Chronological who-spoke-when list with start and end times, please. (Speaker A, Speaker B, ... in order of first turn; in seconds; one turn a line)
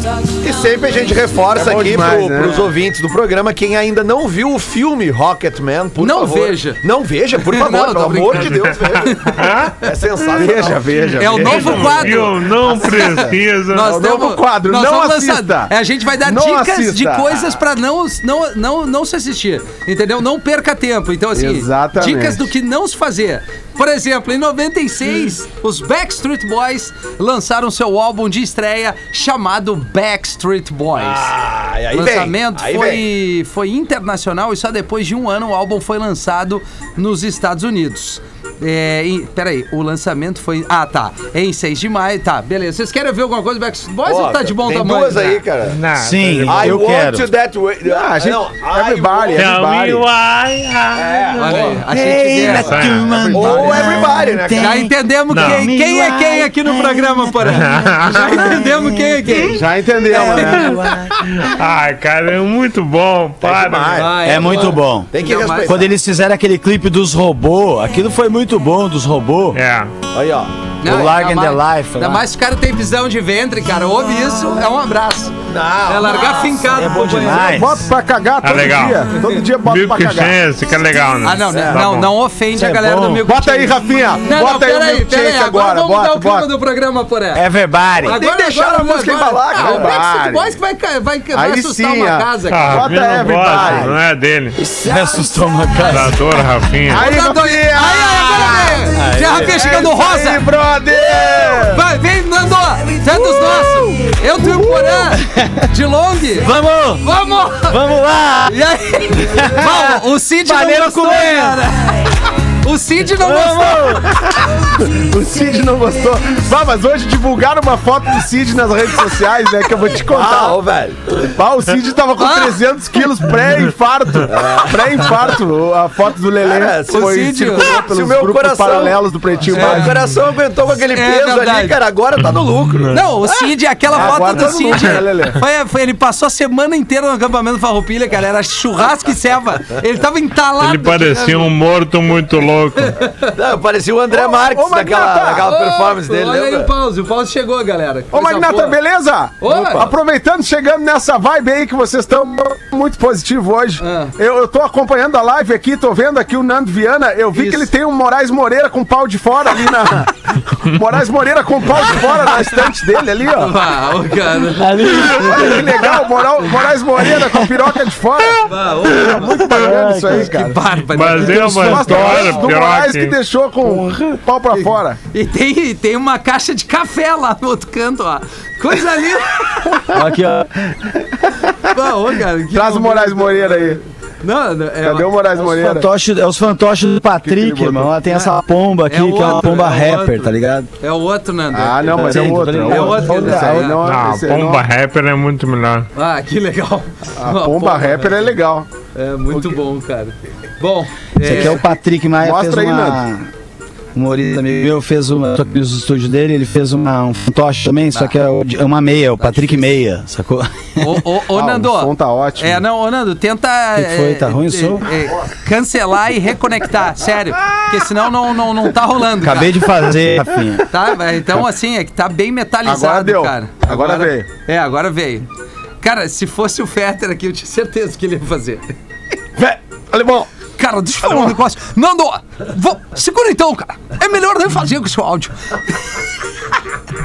Speaker A: 0.4-11.5
Speaker B: 1.5-2.7
Speaker C: 6.0-6.8
Speaker C: 7.5-9.4
Speaker D: 9.3-9.8
Speaker B: 10.3-12.2
Speaker C: 11.2-31.3
Speaker D: 11.3-13.9
Speaker B: 12.8-13.3
Speaker B: 13.8-17.5
Speaker B: 21.3-22.5
Speaker A: 30.9-33.0
Speaker C: 31.9-45.4
Speaker A: 44.0-45.8
Speaker D: 45.7-46.7
Speaker E: 46.0-47.3
Speaker A: 46.4-49.5
Speaker B: 47.8-50.0
Speaker D: 49.3-51.4
Speaker A: 50.9-51.8
Speaker C: 51.4-53.6
Speaker E: 51.8-61.5
Speaker D: 52.5-53.2
Speaker B: 53.1-54.0
Speaker A: 53.3-54.9
Speaker C: 54.5-59.6
Speaker D: 55.3-55.7
Speaker D: 57.5-58.4
Speaker B: 59.4-60.8
Speaker C: 60.1-60.8
Speaker D: 61.3-64.1
Speaker A: 63.4-65.9
Speaker C: 64.0-65.8
Speaker E: 64.2-65.1
Speaker E: 65.6-69.6
Speaker D: 69.5-69.9
Speaker A: 70.1-70.5
Speaker C: 70.8-77.5
Speaker E: 70.8-72.2
Speaker A: 75.5-76.6
Speaker E: 76.7-77.9
Speaker B: 77.4-80.4
Speaker D: 78.4-79.0
Speaker D: 79.6-82.1
Speaker C: 81.2-87.4
Speaker A: 81.5-81.8
Speaker E: 82.5-83.3
Speaker B: 83.2-86.5
Speaker E: 87.3-88.2
Speaker C: 88.0-92.8
Speaker A: 88.0-89.9
Speaker B: 89.5-90.6
Speaker B: 91.3-93.9
Speaker D: 92.5-94.6
Speaker E: 93.5-93.9
Speaker E: 94.8-96.3
Speaker D: 95.9-97.1
Speaker B: 96.9-101.8
Speaker C: 96.9-100.4
Speaker E: 98.9-99.8
Speaker C: 101.7-107.8
Speaker E: 105.1-105.7
Speaker E: 106.4-107.1
Speaker E: 107.6-108.6
Speaker C: 108.5-114.0
Speaker E: 109.2-111.6
Speaker E: 113.2-114.1
Speaker B: 114.1-120.6
Speaker A: 120.1-121.3
Speaker B: 121.3-130.0
Speaker C: 122.2-122.6
Speaker A: 124.3-125.2
Speaker A: 126.4-132.9
Speaker C: 126.9-127.7
Speaker C: 129.5-129.9
Speaker C: 130.9-131.8
Speaker D: 132.8-133.0
Speaker C: 132.9-141.5
Speaker B: 133.9-135.4
Speaker D: 140.6-142.9
Speaker C: 143.0-143.2
Speaker A: 143.3-146.7
Speaker B: 144.1-145.5
Speaker C: 145.4-148.8
Speaker B: 148.1-163.5
Speaker C: 149.4-149.9
Speaker C: 153.8-154.1
Speaker C: 157.3-157.7
Speaker C: 163.3-165.6
Speaker E: 164.5-165.8
Speaker B: 165.0-170.6
Speaker E: 167.2-167.6
Speaker C: 168.4-169.6
Speaker E: 168.9-170.5
Speaker C: 170.1-172.3
Speaker D: 170.9-173.2
Speaker E: 171.2-172.3
Speaker B: 171.2-175.0
Speaker E: 173.6-174.2
Speaker C: 174.5-179.8
Speaker E: 179.9-180.7
Speaker C: 181.7-185.5
Speaker B: 182.5-183.8
Speaker B: 184.8-185.9
Speaker E: 185.4-190.7
Speaker B: 187.2-187.9
Speaker C: 188.9-193.8
Speaker B: 191.5-194.6
Speaker E: 191.9-193.8
Speaker D: 193.8-195.9
Speaker C: 195.9-198.3
Speaker B: 197.2-198.7
Speaker C: 198.9-201.6
Speaker E: 201.2-203.3
Speaker B: 201.3-201.5
Speaker B: 202.2-203.0
Speaker E: 203.9-211.0
Speaker C: 209.2-209.8
Speaker C: 210.8-219.5
Speaker B: 211.3-212.6
Speaker E: 213.7-214.9
Speaker E: 219.2-220.7
Speaker C: 220.7-225.2
Speaker B: 222.6-224.3
Speaker C: 225.8-228.7
Speaker B: 229.4-230.3
Speaker C: 230.6-236.0
Speaker B: 231.1-231.3